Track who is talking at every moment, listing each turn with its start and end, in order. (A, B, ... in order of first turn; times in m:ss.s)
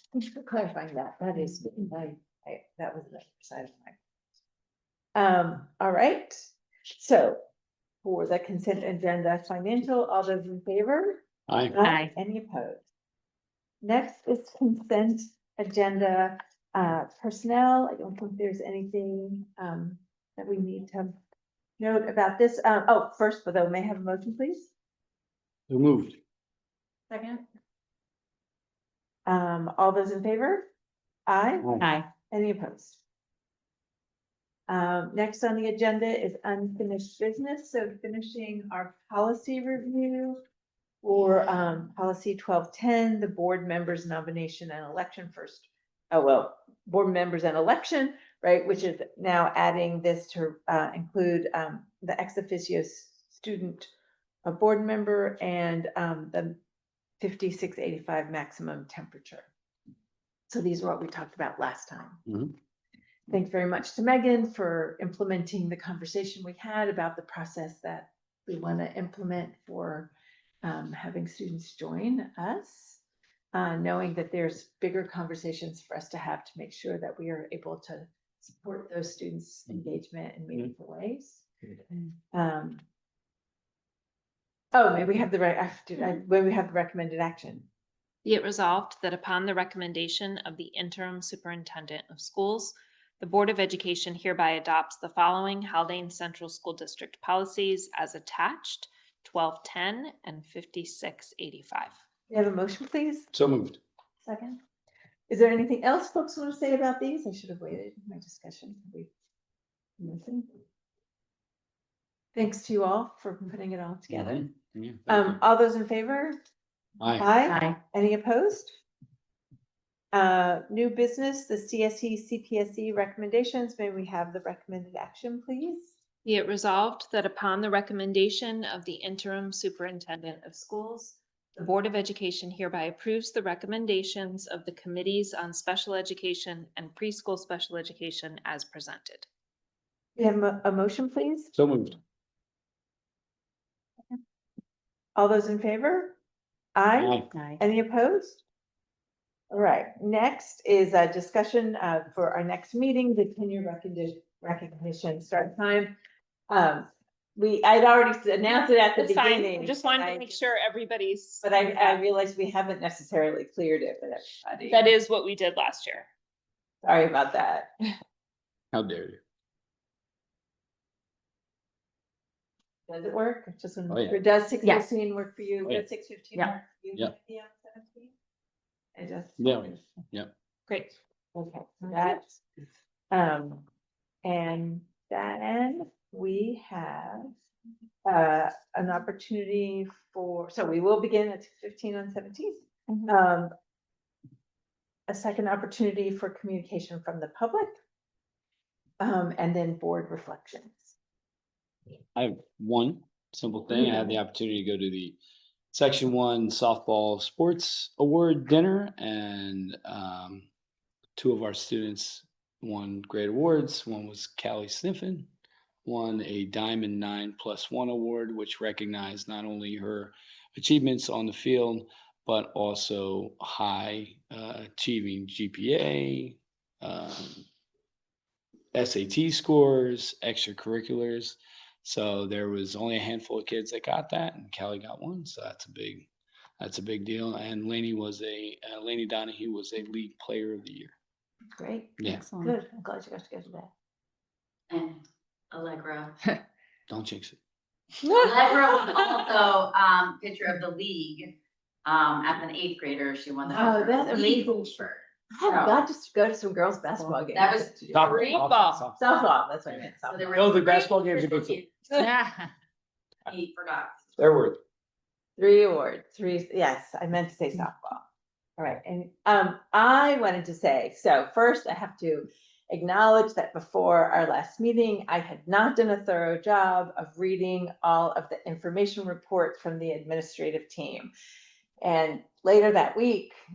0:00.1-0:04.0 A
0:05.2-0:07.4 A
0:08.0-0:12.8 A
0:11.5-0:11.8 B
0:13.8-0:21.2 A
0:21.8-0:24.7 A
0:25.7-0:26.2 B
0:29.3-0:30.7 A
0:31.3-0:31.7 A
0:32.3-0:33.0 A
0:34.7-0:40.4 A
0:41.0-0:53.9 A
0:54.4-0:56.6 A
0:57.2-0:59.5 A
1:00.5-1:02.2 A
1:02.3-1:02.5 B
1:03.3-1:10.1 A
1:10.6-1:13.0 A
1:13.5-1:21.7 A
1:22.3-1:22.8 A
1:24.7-1:27.7 A
1:28.2-1:42.0 C
1:42.3-1:43.3 A
1:43.3-1:43.8 B
1:44.2-1:44.6 A
1:45.3-1:49.1 A
1:50.0-1:50.5 A
1:52.4-1:54.5 A
1:54.1-1:55.4 B
1:55.1-1:56.4 A
1:57.0-1:57.3 B
1:57.2-1:58.8 A
2:00.1-2:05.9 A
2:06.2-2:19.3 C
2:20.2-2:21.5 A
2:21.5-2:22.0 B
2:25.2-2:26.2 A
2:26.8-2:28.4 A
2:27.0-2:27.3 B
2:29.5-2:36.0 A
2:36.5-2:40.3 A
2:39.0-2:42.0 C
2:41.4-2:44.9 A
2:44.7-2:46.1 C
2:46.8-2:47.7 A
2:48.7-2:49.2 B
2:52.9-2:58.1 A
2:53.9-2:54.2 B
2:59.0-2:59.8 A
2:59.4-3:00.3 B
3:00.7-3:02.4 A
3:03.1-3:03.6 A
3:04.2-3:07.3 A
3:08.0-3:13.5 A
3:15.1-3:17.8 A
3:19.0-3:20.9 A
3:22.2-3:25.2 B
3:25.7-3:30.5 B
3:31.2-3:35.3 B
3:35.8-3:47.5 B
3:48.7-4:00.9 B
4:01.6-4:03.7 A
4:02.0-4:02.3 B
4:04.7-4:06.3 D
4:06.9-4:07.4 B
4:08.2-4:11.3 D
4:11.8-4:15.8 D
4:13.5-4:14.8 A
4:15.3-4:18.4 A
4:17.3-4:18.4 D
4:17.9-4:19.0 B
4:18.1-4:18.7 C
4:19.0-4:20.5 A
4:20.0-4:21.7 D
4:20.3-4:21.6 B
4:23.3-4:24.2 D
4:24.2-4:24.6 B
4:25.4-4:28.0 A
4:28.6-4:41.1 A
4:41.8-4:43.4 A